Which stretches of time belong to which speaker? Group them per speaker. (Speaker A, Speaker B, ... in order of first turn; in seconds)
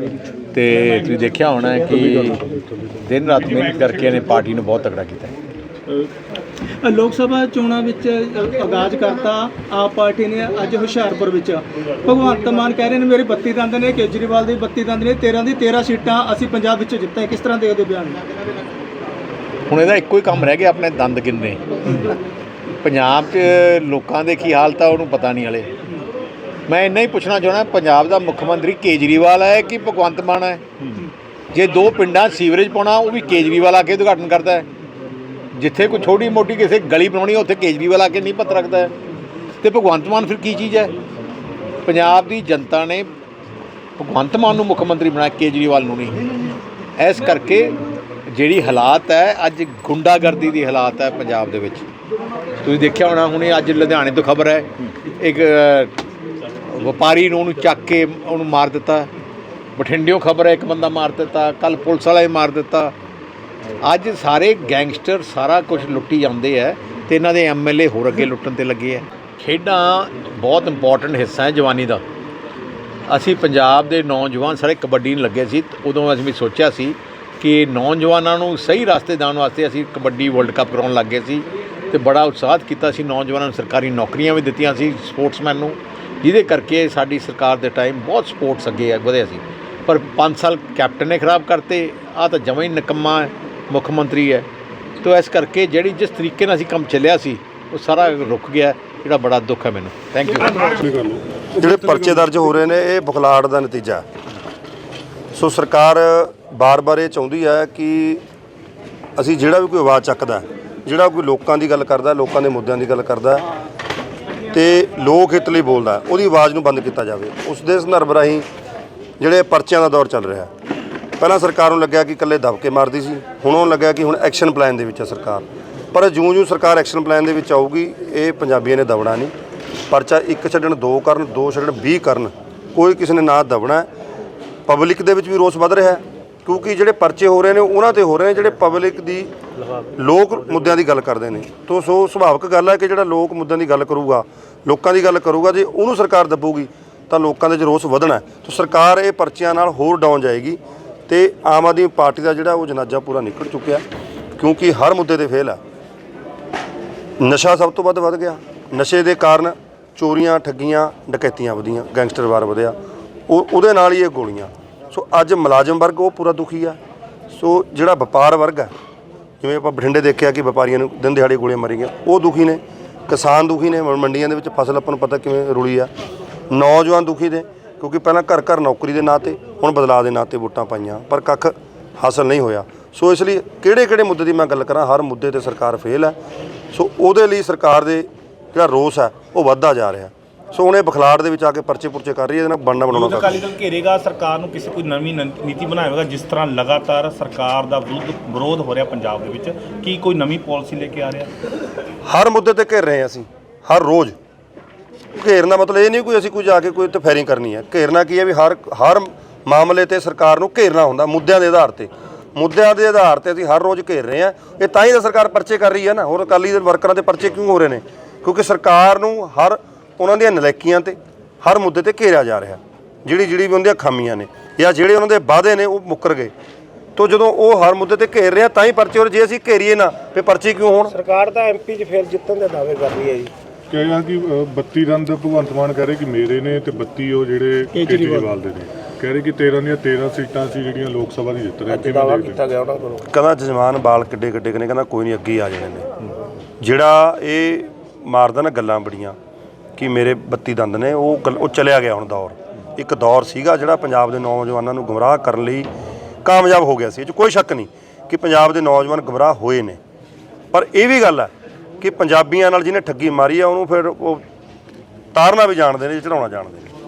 Speaker A: 0.5-2.4, 3.0-5.3, 19.7-22.0, 22.8-25.7, 26.7-30.6, 31.5-34.7, 35.6-38.9, 39.6-40.9, 41.9-43.1, 44.0-46.2, 47.0-47.8, 48.3-51.8, 52.6-55.9, 56.7-59.1, 59.8-63.0, 63.8-72.0, 73.1-94.5, 95.0-100.8
Speaker B: 3.3-4.3, 192.9-201.3
Speaker C: 6.8-18.2, 237.7-238.3
Speaker D: 100.8-101.2, 233.7-242.4
Speaker E: 101.6-104.0, 105.3-108.2, 109.2-113.5, 114.5-118.5, 119.2-120.5, 121.2-129.3, 129.9-133.9, 134.7-139.3, 140.0-153.8, 154.4-155.6, 157.2-162.8, 163.3-166.8, 167.3-168.7, 169.4-175.9, 176.5-186.2, 186.7-193.4, 202.1-204.2, 205.2-226.3, 227.0-231.0, 243.1-245.9, 246.6-249.2, 249.8-255.7, 256.2-259.8, 260.5-264.2, 265.1-266.7
Speaker F: 230.9-233.3, 241.7-243.1